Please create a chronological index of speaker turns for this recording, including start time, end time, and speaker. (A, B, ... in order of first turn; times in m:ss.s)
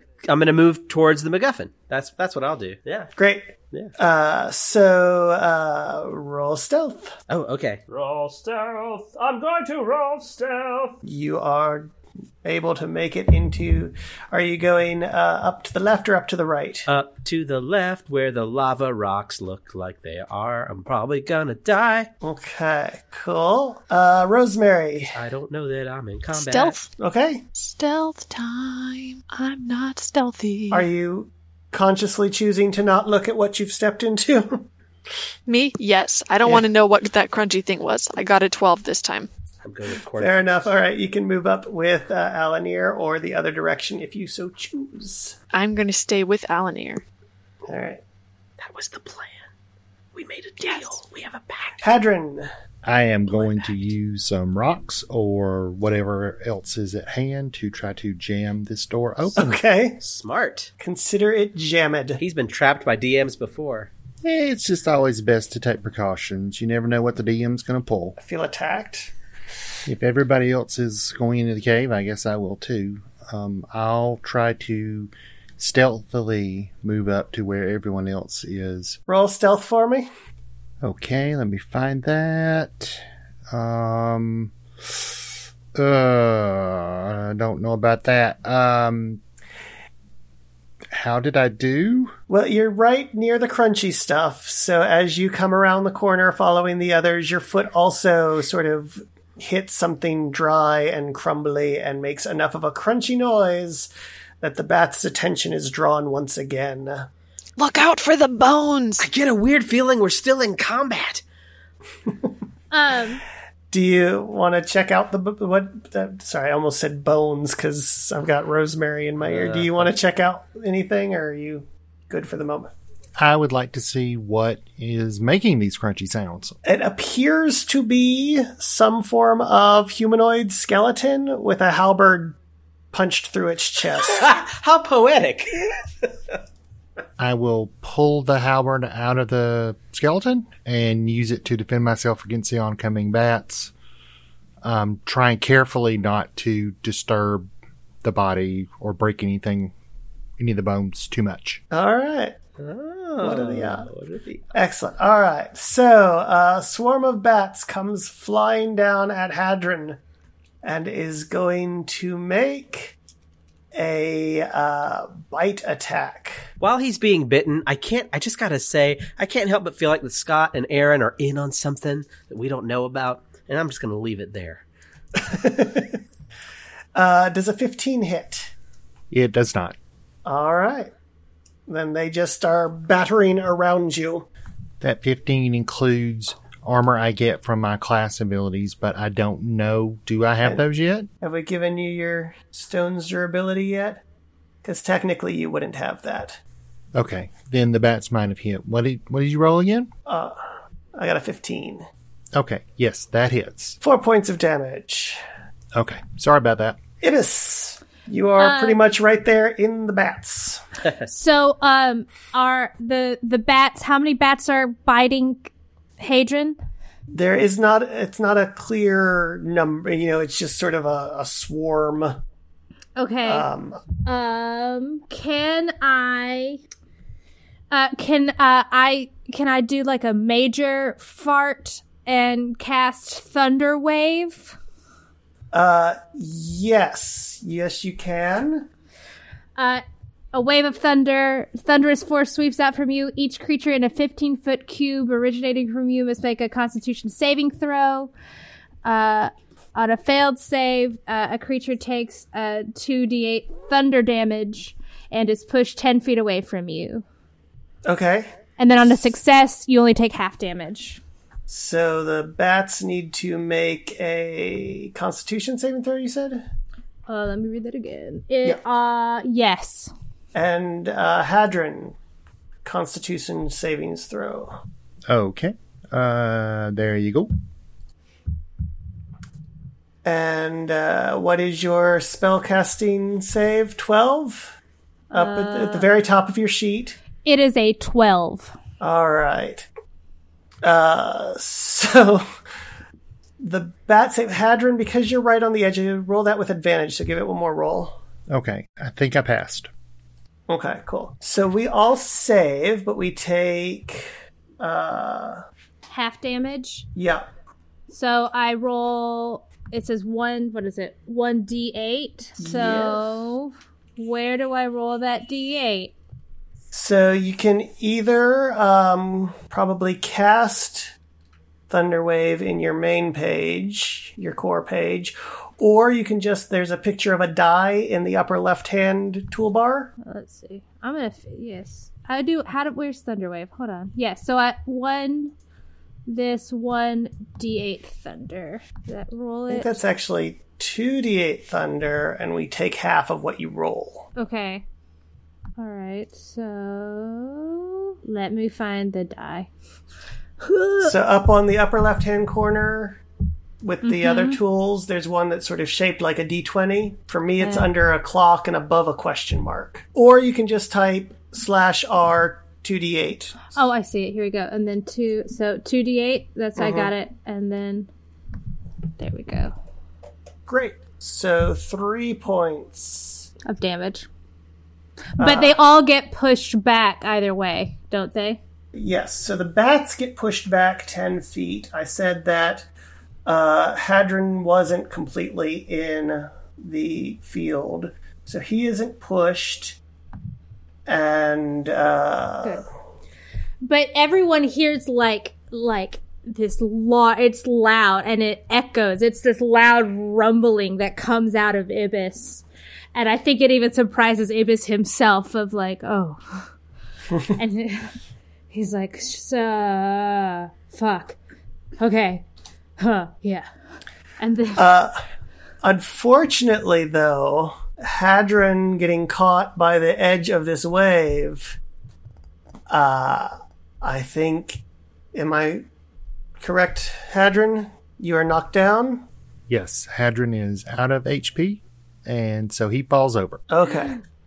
0:00.3-0:03.1 A
0:03.2-0:07.2 B
0:07.3-0:07.8 A
0:07.9-0:11.0 C
0:11.0-0:16.9 B
0:16.9-0:22.1 A
0:22.2-0:25.2 B
0:25.1-0:26.8 A
0:26.4-0:26.9 D
0:27.0-0:27.4 B
0:27.6-0:30.8 D
0:30.7-0:34.7 B
0:35.5-0:39.3 D
0:39.6-0:40.6 A
0:40.2-0:45.4 B
0:45.5-0:47.0 D
0:47.7-0:48.0 B
0:48.6-0:49.4 A
0:50.1-0:51.8 A
0:51.8-0:52.5 B
0:52.8-0:59.4 E
0:53.3-0:53.7 A
0:59.4-1:00.0 B
1:00.0-1:00.7 A
1:00.8-1:02.2 B
1:02.2-1:03.9 A
1:04.2-1:08.2 E
1:08.2-1:09.1 B
1:09.9-1:19.0 E
1:19.1-1:20.1 B
1:20.8-1:25.2 E
1:25.7-1:29.2 E
1:30.9-1:32.1 E
1:32.3-1:43.9 B
1:44.4-1:47.1 B
1:47.6-1:49.0 D
1:49.0-1:51.2 A
1:52.7-1:53.2 F
1:53.7-2:02.7 B
1:59.2-1:59.9 A
2:03.2-2:06.6 E
2:06.6-2:12.4 B
2:12.9-2:14.2 B
2:14.1-2:15.5 A
2:17.2-2:23.7 E
2:24.6-2:27.5 E
2:28.0-2:29.7 E
2:30.4-2:31.6 E
2:31.7-2:32.4 B
2:32.6-2:34.5 A
2:33.2-2:33.9 B
2:34.5-2:40.0 B
2:40.6-2:43.0 B
2:43.7-2:46.5 B
2:46.6-2:54.6 A
2:55.2-2:56.0 B
2:56.9-2:58.5 B
2:59.1-2:59.8 E
3:00.2-3:00.9 B
3:01.7-3:04.3 B
3:04.8-3:11.1 E
3:11.2-3:14.0 B
3:14.6-3:16.4 B
3:16.9-3:19.9 E
3:20.1-3:20.4 B
3:20.9-3:21.9 B
3:22.3-3:23.8 E
3:23.8-3:25.2 B
3:25.7-3:26.8 E
3:27.0-3:30.6 B
3:28.4-3:28.8 F
3:31.1-3:36.6 F
3:37.1-3:42.2 B
3:43.0-3:43.5 F
3:43.2-3:43.8 B
3:44.0-3:46.6 F
3:47.7-3:54.6 F
3:55.5-3:58.7 B
3:59.6-3:59.8 F
4:00.3-4:08.1 F
4:08.8-4:17.0 F
4:17.8-4:18.3 B
4:18.6-4:21.0 F
4:21.5-4:26.4 B
4:27.1-4:29.9 F
4:30.3-4:32.0 B
4:32.6-4:34.6 B
4:35.1-4:37.3 E
4:40.0-4:44.6 B
4:45.1-4:45.8 F
4:45.1-4:47.0 B
4:47.2-4:48.5 F
4:48.8-4:49.7 B
4:50.6-4:52.2 B
4:53.4-4:58.0 B
4:58.3-4:59.7 E
5:00.5-5:05.4 B
5:05.9-5:06.9 F
5:07.0-5:07.2 B
5:07.9-5:15.9 F
5:12.4-5:13.2 B
5:16.7-5:20.9 B
5:21.7-5:29.9 B
5:30.0-5:35.3 F
5:36.1-5:39.8 F
5:39.5-5:44.1 B
5:44.2-5:44.6 F
5:45.6-5:49.5 F
5:50.4-5:51.0 F
5:50.8-5:53.0 B
5:53.6-6:03.5 B
5:53.8-5:54.4 F
5:57.4-5:57.7 F
6:03.5-6:07.9 F
6:06.6-6:06.9 B
6:09.0-6:09.5 F
6:10.5-6:13.3 B
6:13.4-6:14.1 F
6:15.2-6:18.4 F
6:15.2-6:15.6 B
6:18.7-6:22.7 B
6:23.2-6:29.8 B
6:30.9-6:32.6 B
6:33.6-6:46.4 F
6:47.2-6:47.9 F
6:48.5-6:51.2 F
6:51.8-6:52.2 F
6:52.8-6:53.5 F
6:54.2-6:54.7 F
6:54.6-6:55.0 B
6:55.6-7:01.6 B
7:02.7-7:04.6 B
7:05.1-7:05.6 B
7:06.4-7:09.0 B
7:09.5-7:13.4 E
7:13.5-7:14.0 B